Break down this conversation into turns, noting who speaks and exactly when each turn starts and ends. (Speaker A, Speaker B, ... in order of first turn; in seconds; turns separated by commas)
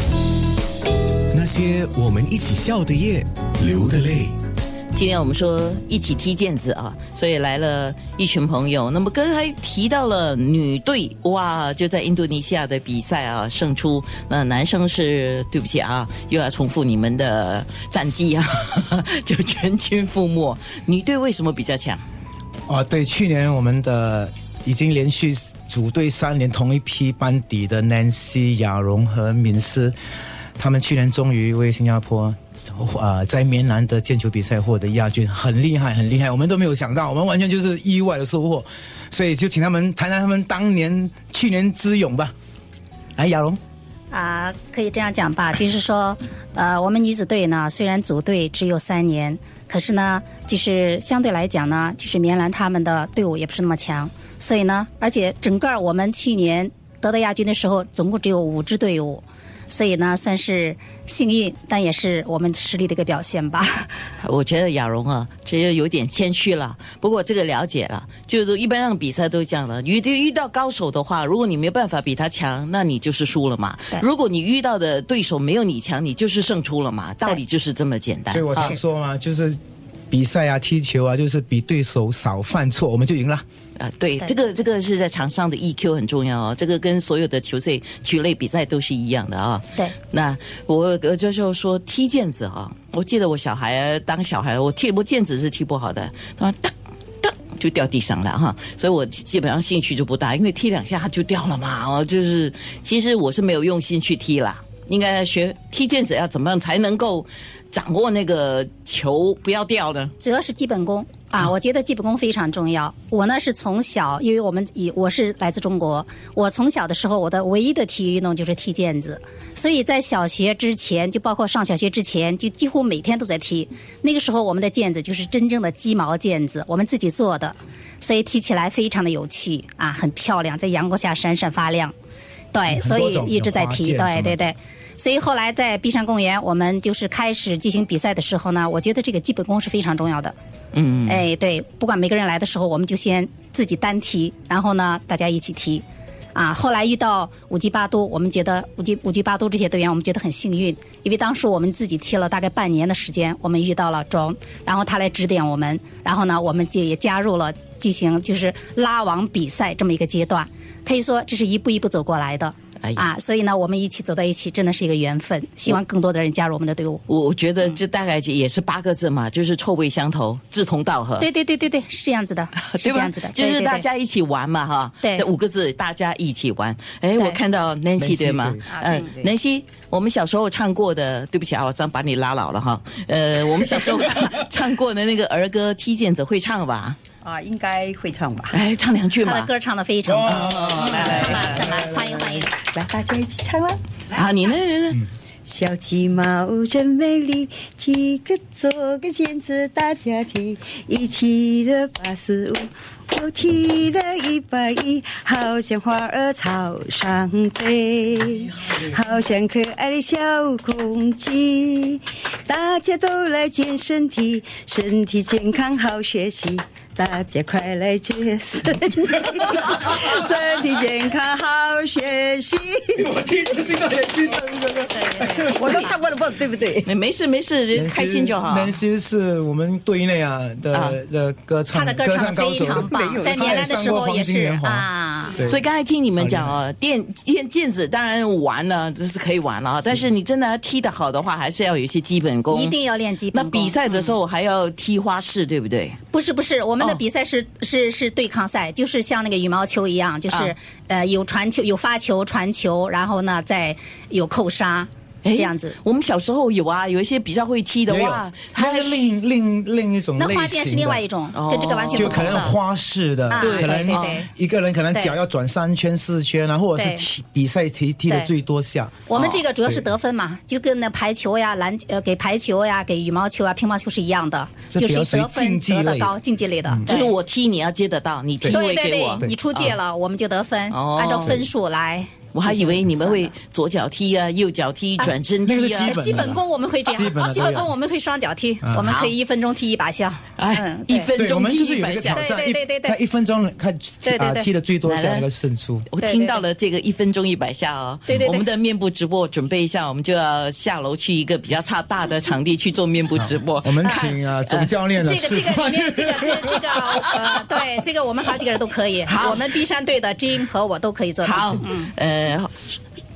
Speaker A: 1.3-4.3, Speaker B: 4.9-22.0, Speaker C: 22.7-29.9, Speaker C: 30.6-42.3, Speaker C: 43.2-43.6, Speaker D: 44.1-64.0, Speaker B: 64.2-78.8, Speaker C: 78.3-79.6, Speaker C: 80.1-83.4, Speaker B: 83.8-110.1, Speaker D: 110.2-131.9, Speaker D: 132.5-140.3, Speaker C: 132.7-134.4, Speaker B: 140.7-141.2, Speaker D: 141.0-167.0, Speaker B: 167.1-171.3, Speaker D: 171.2-173.8, Speaker B: 172.6-187.0, Speaker D: 175.0-175.3, Speaker C: 178.0-178.6, Speaker E: 178.7-179.3, Speaker E: 187.2-188.6, Speaker B: 188.5-189.5, Speaker D: 189.2-192.5, Speaker C: 190.1-192.4, Speaker B: 190.4-190.8, Speaker E: 190.8-191.9, Speaker E: 192.4-193.8, Speaker B: 194.1-195.0, Speaker E: 195.4-223.1, Speaker C: 223.0-225.9, Speaker D: 224.9-225.9, Speaker E: 225.4-226.9, Speaker B: 226.8-228.7, Speaker C: 227.7-235.6, Speaker B: 230.7-231.0, Speaker D: 231.7-235.4, Speaker E: 232.8-233.5, Speaker B: 235.4-242.8, Speaker C: 236.2-236.6, Speaker D: 242.5-244.1, Speaker B: 243.3-246.0, Speaker D: 246.1-255.8, Speaker B: 255.2-259.1, Speaker C: 257.9-261.0, Speaker D: 260.2-262.6, Speaker B: 261.3-262.5, Speaker C: 261.9-269.0, Speaker D: 263.3-264.3, Speaker B: 263.4-264.2, Speaker D: 266.8-267.1, Speaker D: 269.1-277.1, Speaker B: 269.1-269.4, Speaker C: 274.7-276.9, Speaker B: 276.9-279.8, Speaker D: 278.5-283.3, Speaker B: 280.7-281.4, Speaker B: 282.3-286.1, Speaker C: 285.4-287.7, Speaker D: 285.9-291.1, Speaker C: 288.6-288.9, Speaker B: 288.8-289.1, Speaker B: 290.4-292.3, Speaker C: 291.1-295.9, Speaker D: 292.1-293.0, Speaker D: 294.0-294.5, Speaker B: 294.8-295.3, Speaker B: 295.9-304.7, Speaker D: 296.0-296.4, Speaker D: 298.1-298.5, Speaker C: 303.1-307.4, Speaker D: 303.8-304.1, Speaker D: 304.9-311.9, Speaker B: 309.1-309.5, Speaker B: 311.2-312.8